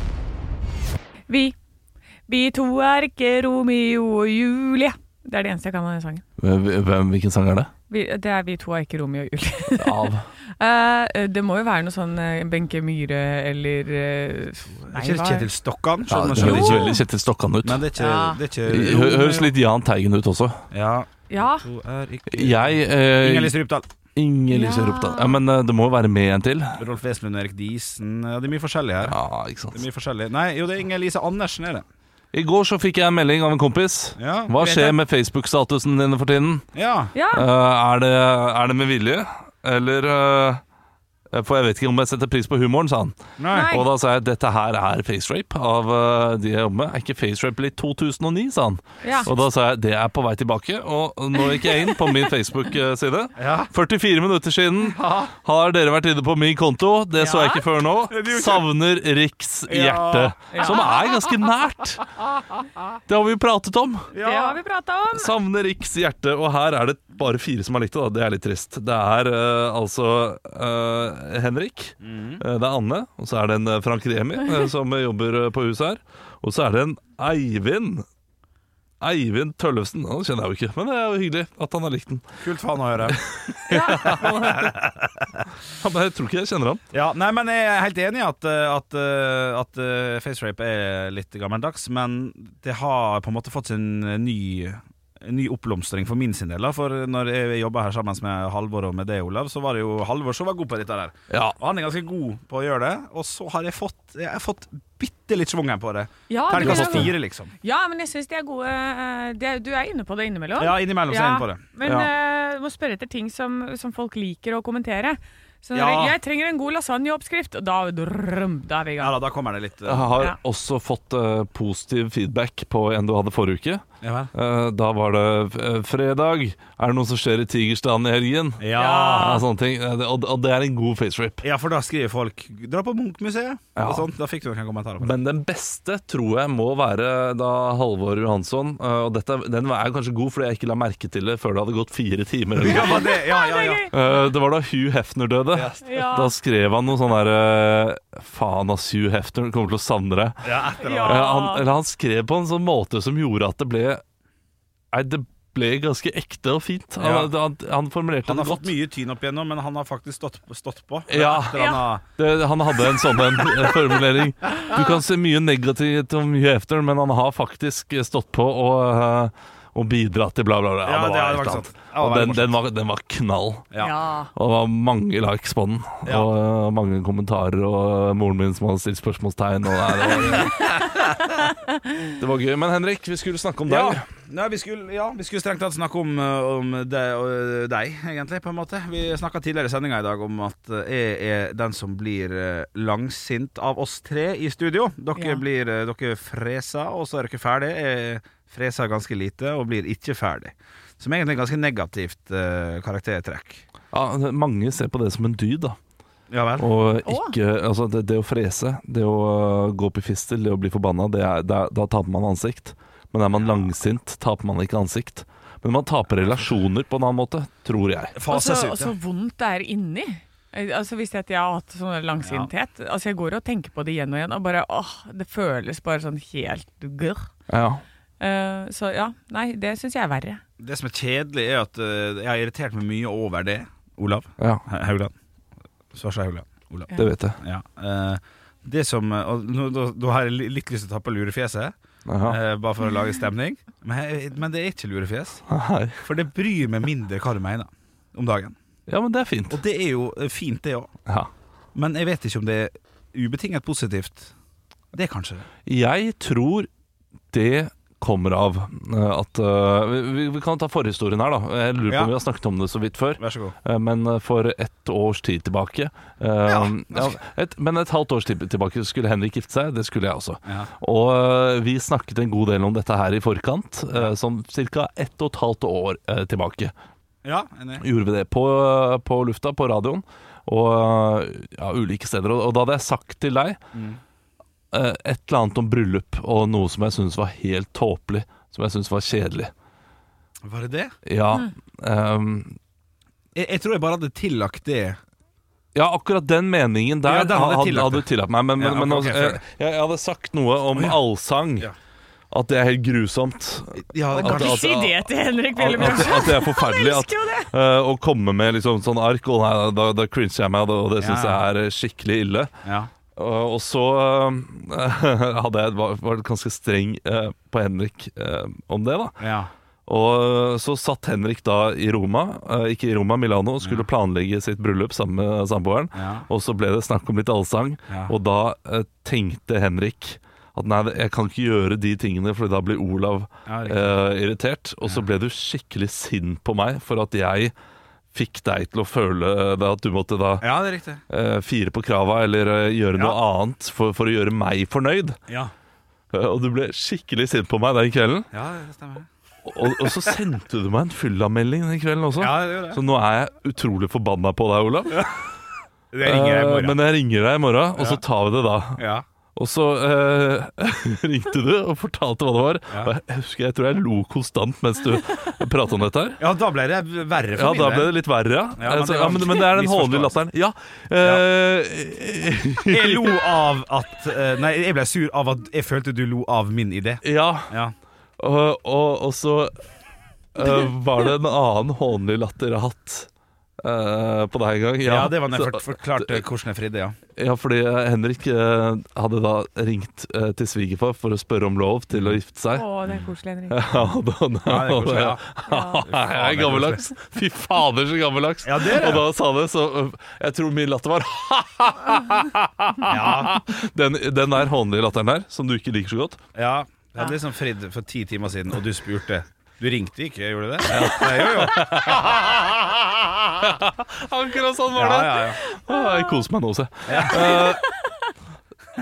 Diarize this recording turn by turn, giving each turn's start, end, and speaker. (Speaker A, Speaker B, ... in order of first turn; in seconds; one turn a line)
Speaker A: 1.3-1.5
Speaker A: 2.3-6.2
Speaker B: 6.4-7.7
Speaker A: 7.9-15.5
Speaker B: 9.7-10.3
Speaker C: 14.9-17.0
Speaker B: 16.1-17.8
Speaker A: 16.3-17.0
Speaker C: 17.6-19.5
Speaker A: 18.0-18.4
Speaker B: 18.6-20.6
Speaker C: 20.7-23.9
Speaker A: 21.3-21.6
Speaker B: 22.3-23.6
Speaker B: 24.1-26.8
Speaker A: 24.5-25.4
Speaker C: 26.8-29.1
Speaker B: 29.0-29.8
Speaker C: 29.7-31.9
Speaker B: 32.3-36.7
Speaker C: 34.2-34.9
Speaker C: 36.7-37.1
Speaker A: 37.1-37.5
Speaker B: 37.3-40.6
Speaker B: 41.3-62.2
Speaker C: 43.4-43.7
Speaker A: 43.5-43.9
Speaker A: 49.0-49.3
Speaker A: 51.6-52.0
Speaker C: 53.4-53.7
Speaker C: 54.9-55.3
Speaker A: 57.2-57.6
Speaker C: 58.1-58.7
Speaker C: 59.7-60.7
Speaker A: 60.5-60.9
Speaker B: 63.1-64.1
Speaker C: 64.1-64.6
Speaker A: 64.2-65.3
Speaker B: 65.1-78.0
Speaker C: 72.0-72.4
Speaker B: 79.0-82.4
Speaker C: 82.4-83.2
Speaker B: 83.1-84.7
Speaker A: 83.7-84.1
Speaker C: 84.0-85.3
Speaker B: 85.8-86.8
Speaker C: 86.9-107.5
Speaker B: 101.3-101.6
Speaker A: 106.3-119.2
Speaker B: 106.5-107.1
Speaker C: 110.6-111.7
Speaker B: 111.8-112.1
Speaker C: 115.7-116.2
Speaker C: 119.0-120.1
Speaker B: 119.8-131.4
Speaker C: 124.0-124.3
Speaker C: 128.6-129.3
Speaker A: 128.8-129.4
Speaker C: 131.4-135.1
Speaker B: 133.8-134.1
Speaker B: 135.0-143.2
Speaker C: 142.6-143.9
Speaker A: 142.6-143.9
Speaker B: 143.9-154.0
Speaker C: 145.5-145.8
Speaker A: 145.8-146.3
Speaker C: 150.4-151.3
Speaker A: 150.8-151.7
Speaker B: 154.9-158.7
Speaker C: 157.0-157.3
Speaker C: 158.2-162.0
Speaker B: 161.1-173.7
Speaker A: 161.5-161.8
Speaker C: 170.8-172.6
Speaker A: 173.8-174.3
Speaker B: 174.3-181.0
Speaker C: 180.2-180.5
Speaker B: 182.2-184.0
Speaker C: 183.7-203.6
Speaker A: 195.1-195.4
Speaker B: 203.9-205.8
Speaker C: 206.3-206.7
Speaker B: 206.6-218.1
Speaker A: 207.0-207.3
Speaker C: 218.1-218.9
Speaker A: 218.3-227.3
Speaker C: 222.2-222.5
Speaker B: 227.5-227.8
Speaker A: 228.2-230.4
Speaker C: 230.6-235.1
Speaker B: 234.4-234.6
Speaker C: 235.9-245.4
Speaker B: 236.9-237.4
Speaker B: 242.1-242.4
Speaker B: 245.5-246.1
Speaker C: 246.0-248.5
Speaker B: 248.9-249.6
Speaker C: 249.5-250.9
Speaker C: 251.7-254.3
Speaker C: 254.9-255.5
Speaker B: 255.7-256.7
Speaker B: 257.3-276.7
Speaker C: 263.2-263.5
Speaker C: 266.4-267.2
Speaker C: 277.2-277.8
Speaker B: 277.8-283.6
Speaker C: 283.7-284.0
Speaker B: 284.7-289.5
Speaker C: 290.4-290.9
Speaker B: 291.1-292.6
Speaker C: 293.3-295.0
Speaker B: 295.7-301.7
Speaker C: 297.0-299.4
Speaker C: 300.7-301.0
Speaker B: 302.3-312.5
Speaker C: 303.9-304.6
Speaker A: 304.1-307.5
Speaker C: 311.0-311.4
Speaker C: 312.6-312.9
Speaker B: 313.1-319.2
Speaker C: 319.2-319.5
Speaker B: 319.9-337.5
Speaker C: 323.6-323.9
Speaker C: 325.9-326.2
Speaker C: 327.9-328.1
Speaker C: 333.5-333.9
Speaker B: 338.1-345.2
Speaker C: 340.4-341.0
Speaker B: 346.1-348.3
Speaker C: 348.3-349.1
Speaker B: 349.4-355.1
Speaker C: 349.8-350.1
Speaker C: 352.2-352.8
Speaker C: 355.9-356.8
Speaker B: 356.0-358.8
Speaker C: 358.8-359.0
Speaker B: 359.4-366.2
Speaker C: 366.2-367.9
Speaker B: 367.3-373.3
Speaker C: 368.6-370.2
Speaker C: 372.7-377.7
Speaker B: 377.0-377.5
Speaker B: 378.2-379.5
Speaker B: 380.3-383.1
Speaker B: 383.6-386.2
Speaker C: 384.8-386.9
Speaker B: 387.1-392.9
Speaker A: 392.5-393.7
Speaker B: 393.5-406.2
Speaker C: 394.4-395.2
Speaker A: 395.5-395.8
Speaker C: 395.8-396.8
Speaker C: 398.4-399.1
Speaker C: 402.9-403.4
Speaker C: 406.3-412.4
Speaker B: 410.7-412.3
Speaker B: 413.4-417.7
Speaker C: 414.7-415.4
Speaker A: 415.7-416.2
Speaker C: 416.9-417.2
Speaker A: 416.9-417.9